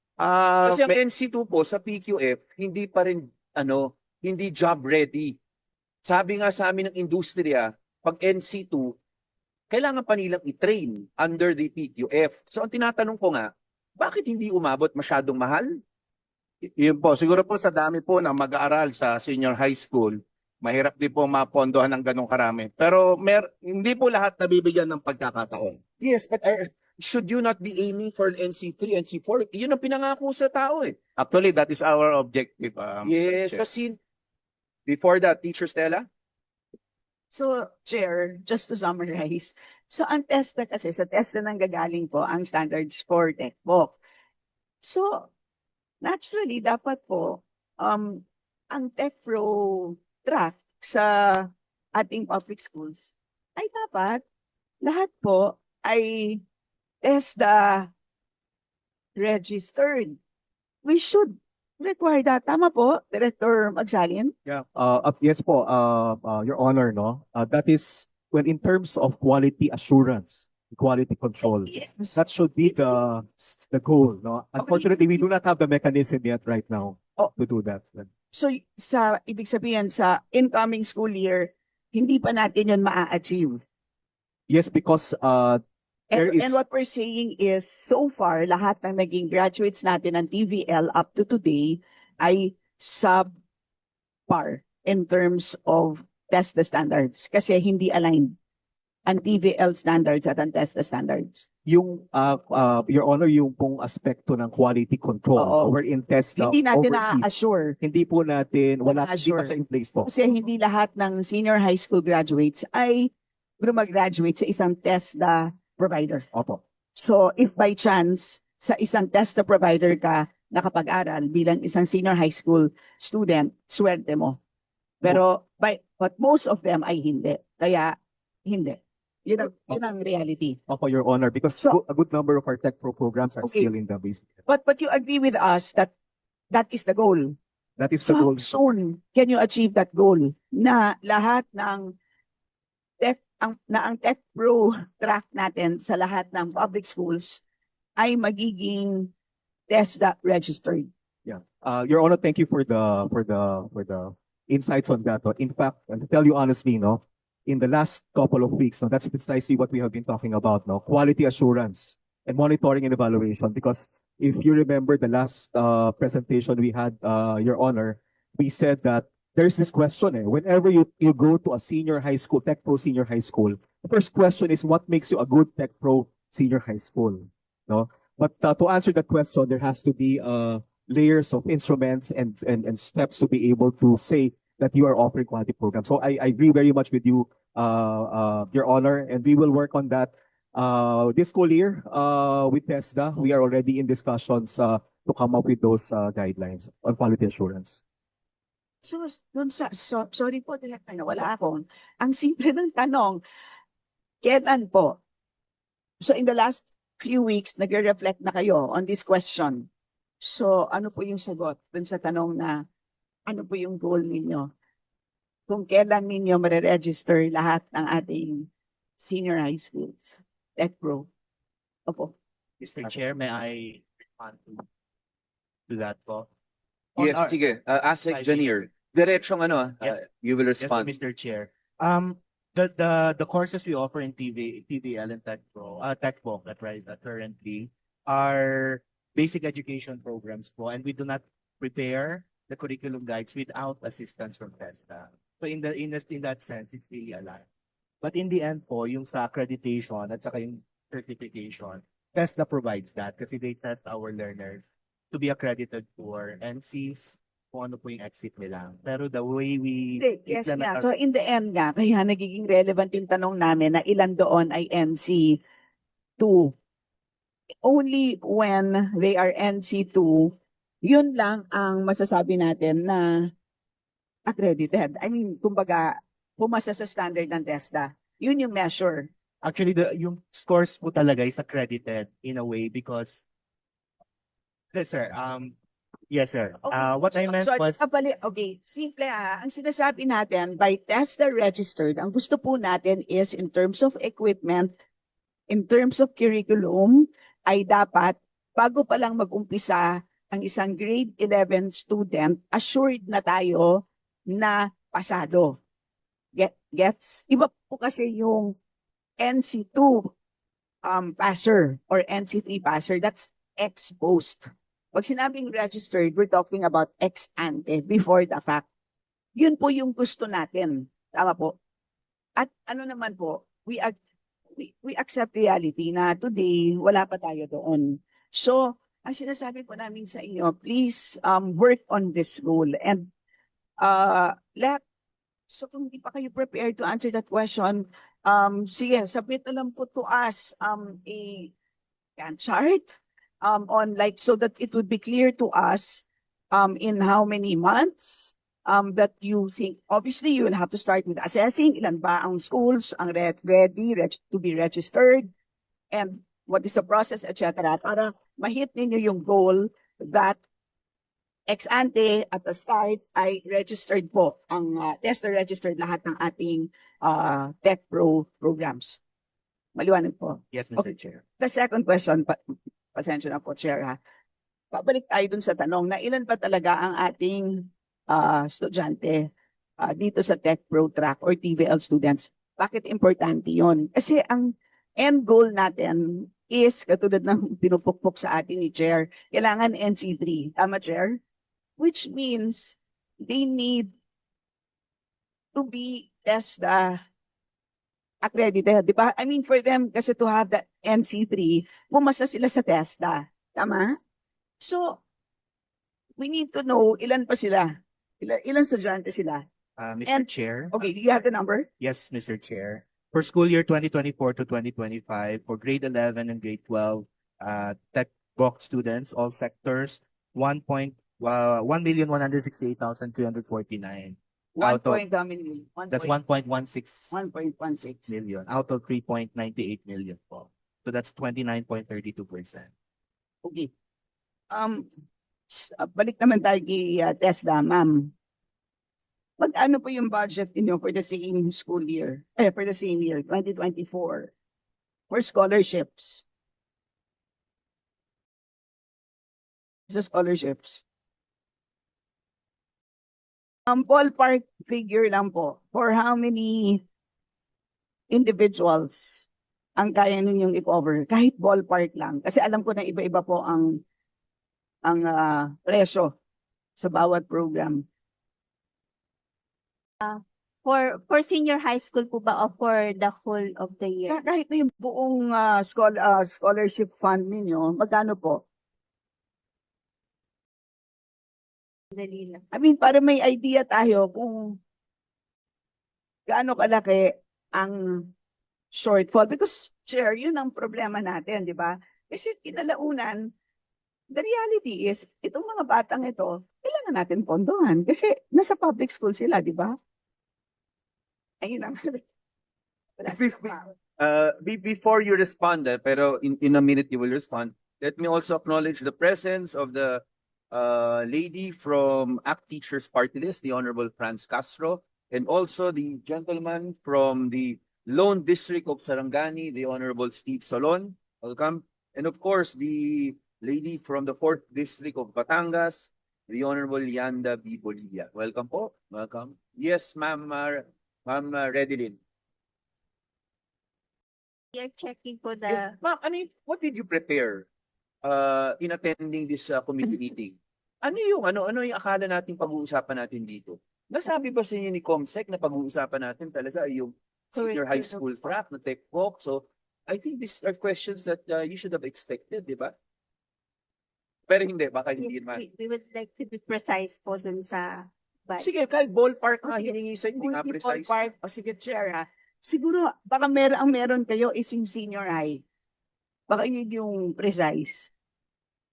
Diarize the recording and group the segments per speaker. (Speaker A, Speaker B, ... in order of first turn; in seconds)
Speaker A: 0.2-0.9, 16.6-25.8, 31.2-33.6
Speaker B: 0.6-5.4, 6.0-8.9, 9.7-15.8, 26.0-31.0, 33.0-34.0, 34.9-36.0, 227.0-230.9, 503.1-532.0, 535.5-537.5, 538.0-552.7, 554.3-555.4, 558.4-560.9
Speaker C: 37.3-44.0, 44.8-45.3, 46.0-54.2, 54.8-56.4, 57.0-57.9, 59.1-60.2, 60.8-64.3, 71.5-72.9, 74.5-75.2, 78.3-83.6, 86.1-93.3, 94.3-98.3, 99.0-101.5, 105.3-105.7, 106.3-107.8, 108.8-116.3, 116.9-124.4, 125.0-130.6, 133.4-133.7, 134.4-135.9, 136.5-137.3, 138.0-141.9, 143.0-147.4, 148.0-149.1, 149.7-150.9, 198.8-203.2, 204.2-205.0, 206.0-209.7, 210.2-212.6, 213.2-214.5, 215.5-221.1, 221.9-222.1, 260.0-265.4, 266.2-266.5, 267.6-273.3, 274.2-279.1, 286.7-294.7, 295.5-305.6, 306.3-308.5, 309.2-310.1, 310.8-318.6, 319.3-321.6, 322.4-323.9, 324.6-333.1, 333.8-334.8, 335.5-341.5, 342.2-355.3, 355.9-360.4, 361.5-369.0, 369.7-370.8, 371.4-372.4, 372.9-374.0, 374.7-391.2, 391.8-393.9, 395.5-397.0, 398.2-403.9, 404.6-405.0, 406.2-409.4, 410.1-411.7, 424.6-426.1, 427.1-428.1, 433.4-433.7, 434.5-434.9, 435.5-438.1, 439.4-444.3, 445.1-446.2, 449.9-450.8, 453.7-456.8, 458.1-459.2, 459.8-463.8, 464.8-466.1, 466.8-467.8, 474.1-478.4, 482.5-484.6, 486.3-488.1, 488.7-493.3, 494.1-499.8, 501.4-502.0, 503.0-503.7, 559.4-565.4, 566.3-567.9
Speaker D: 64.5-78.1, 84.5-85.6, 86.1-86.6, 101.6-107.2, 107.8-110.1, 116.3-116.6, 130.7-134.3, 137.8-138.5, 151.2-197.8
Speaker E: 222.6-224.6, 225.7-226.3, 226.9-227.4, 228.1-228.5, 230.6-247.4, 248.0-260.9, 279.4-283.2, 284.7-285.5, 286.1-287.8, 370.5-371.2, 409.8-410.7, 411.8-425.0, 425.9-427.1, 428.1-432.7
Speaker F: 470.0-474.2, 481.9-482.4, 534.5-535.8, 547.4-548.0, 555.0-558.5